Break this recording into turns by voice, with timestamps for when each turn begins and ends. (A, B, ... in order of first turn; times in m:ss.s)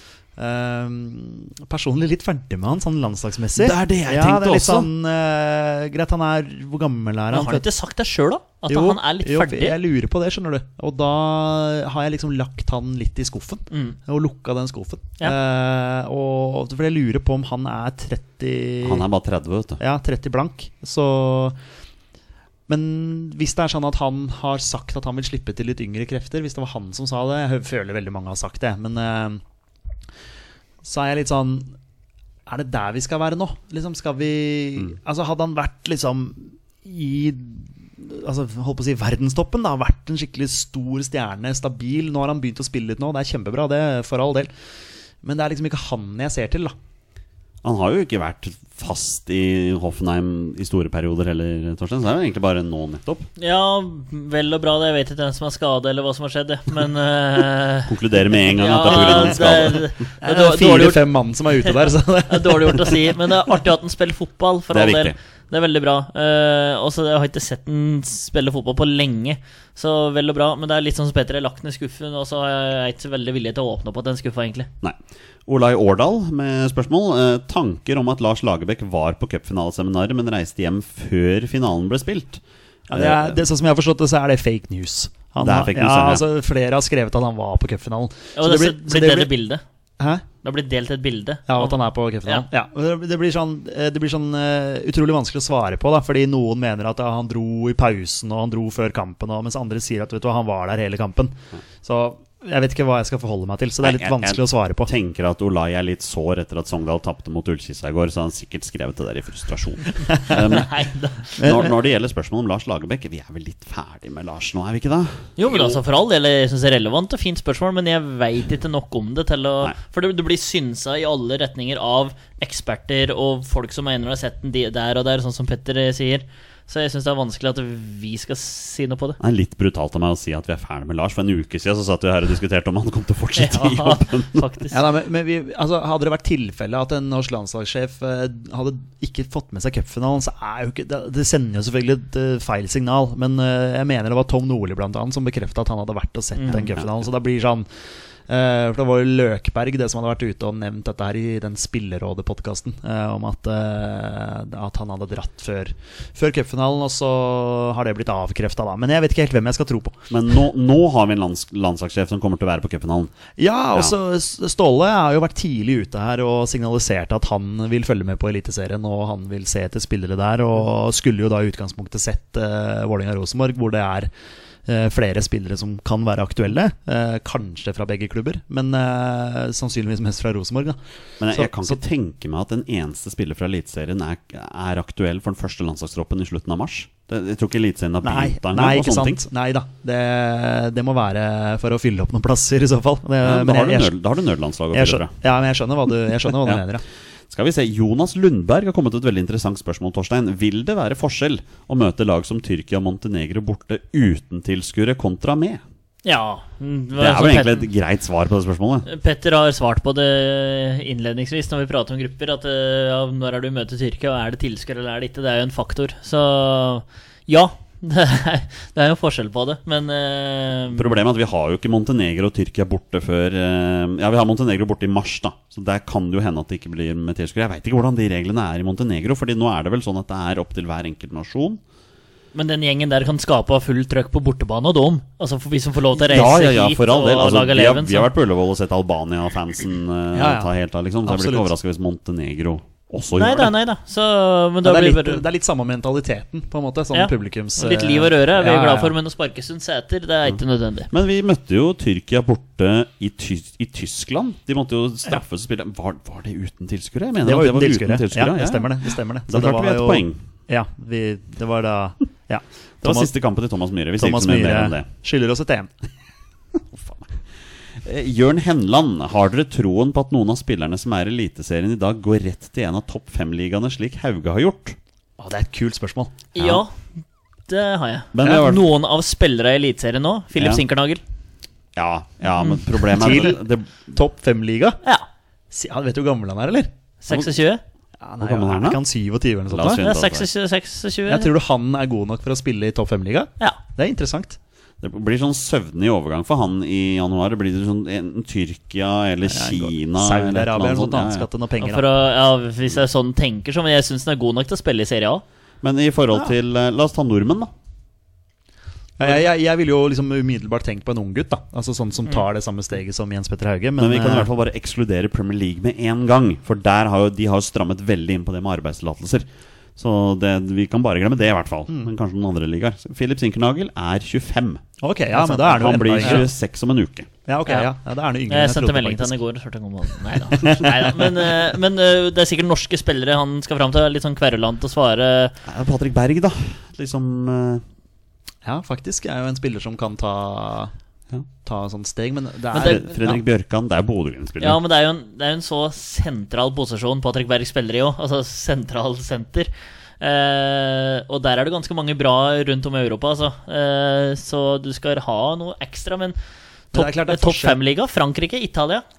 0:00.4-0:07.6 A
0:03.6-0:04.9 B
0:07.3-0:09.8 C
0:08.7-0:19.0 A
0:13.7-0:14.0 C
0:18.8-0:19.8 B
0:19.8-0:21.6 A
0:22.7-0:29.4 A
0:30.8-0:31.7 A
0:32.5-0:44.5 A
0:45.2-0:46.7 A
0:47.6-0:53.3 B
0:53.4-0:57.9 C
0:57.9-0:59.9 B
0:58.5-1:01.1 C
0:59.0-1:03.2 A
1:02.3-1:14.7 C
1:04.7-1:05.1 B
1:14.8-1:23.4 B
1:22.9-1:29.3 A
1:25.4-1:26.2 B
1:28.4-1:29.6 C
1:30.4-1:32.5 C
1:31.5-1:44.9 A
1:43.8-1:50.7 B
1:50.3-1:51.6 C
1:51.4-1:55.8 B
1:51.4-1:51.7 A
1:55.4-2:09.2 C
2:09.2-2:14.5 B
2:13.4-2:14.8 C
2:14.7-2:27.7 A
2:26.3-2:26.7 C
2:26.5-2:27.1 B
2:28.3-2:40.0 A
2:40.1-2:43.1 B
2:43.4-2:54.1 A
2:54.7-3:00.8 A
3:01.2-3:09.2 B
3:01.3-3:01.8 A
3:08.0-3:13.9 A
3:13.2-3:15.1 B
3:14.7-3:16.8 A
3:17.3-3:25.6 B
3:26.0-3:27.6 C
3:27.0-3:28.9 B
3:28.8-3:41.0 C
3:40.7-3:51.6 B
3:52.3-3:58.1 C
3:56.0-4:03.5 B
4:00.1-4:00.5 A
4:01.0-4:01.5 A
4:03.2-4:05.2 C
4:04.6-4:08.9 A
4:06.9-4:10.9 C
4:10.9-4:20.2 B
4:17.2-4:23.1 A
4:22.8-4:24.8 B
4:24.0-4:25.7 A
4:26.7-4:27.1 B
4:27.8-4:34.8 B
4:35.2-4:36.2 A
4:36.3-4:36.7 C
4:36.4-4:36.6 B
4:37.5-4:41.0 C
4:38.1-4:38.6 B
4:40.4-4:40.6 B
4:41.7-4:43.7 B
4:42.4-4:43.0 C
4:42.9-4:44.8 A
4:45.5-4:46.7 A
4:47.0-4:47.6 C
4:48.0-4:49.9 A
4:48.2-4:48.8 B
4:49.5-4:50.3 B
4:49.8-4:51.3 C
4:51.1-4:54.4 A
4:54.8-5:01.3 B
4:59.2-5:01.8 A
5:01.6-5:05.2 C
5:05.6-5:07.5 B
5:09.0-5:14.3 A
5:13.8-5:24.6 B
5:24.8-5:26.3 A
5:25.2-5:27.1 B
5:27.2-5:29.2 A
5:28.3-5:35.3 C
5:30.3-5:31.3 A
5:35.4-5:37.6 B
5:38.4-5:40.7 A
5:41.4-5:43.2 A
5:42.5-5:42.9 C
5:42.5-5:44.6 B
5:44.4-5:56.2 C
5:56.7-5:58.8 C
5:56.7-5:57.6 A